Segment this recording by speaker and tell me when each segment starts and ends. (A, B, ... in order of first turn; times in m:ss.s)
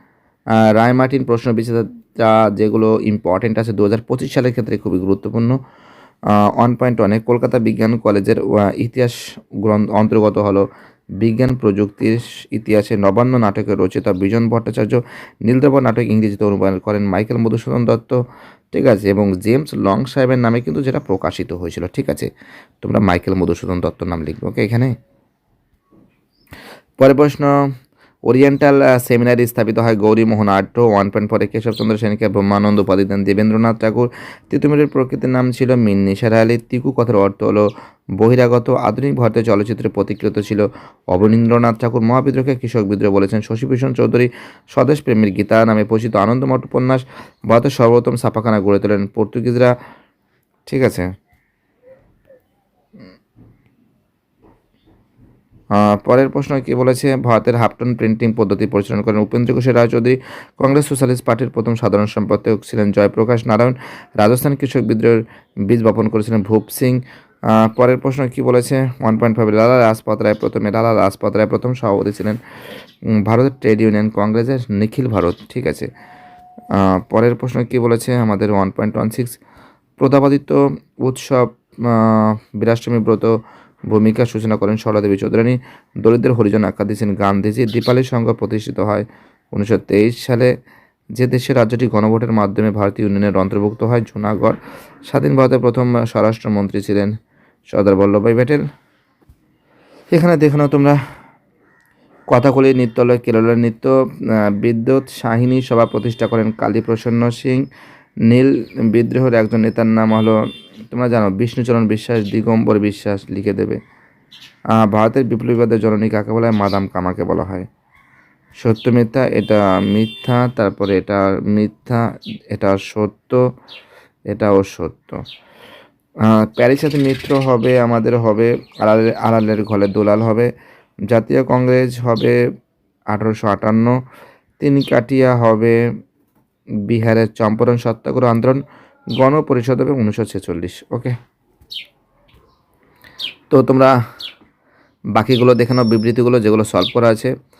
0:00.6-0:05.6 A
0:06.6-0:10.7 A
0:11.2-0:18.2 A
0:18.7-0:22.3 A
0:22.8-0:24.9 A
0:27.0-0:27.5 A
0:28.3-0:49.7 A
0:50.7-0:51.1 A
0:55.7-1:07.0 A
1:07.5-1:12.4 A
1:13.2-1:15.9 A
1:16.8-1:19.4 A
1:20.0-1:23.4 A
1:23.9-1:30.5 A
1:31.2-1:37.1 A
1:37.7-1:38.6 A
1:40.1-1:41.0 A
1:42.3-1:44.0 A
1:44.6-1:47.6 A
1:48.3-1:50.4 A
1:50.9-1:53.8 A
1:54.8-1:57.7 A
1:58.6-2:03.4 A
2:04.3-2:05.2 A
2:06.2-2:10.5 A
2:11.1-2:12.4 A
2:13.1-2:14.0 A
2:14.6-2:15.8 A
2:16.9-2:18.6 A
2:19.2-2:21.2 A
2:23.5-2:23.9 A
2:25.2-2:27.3 A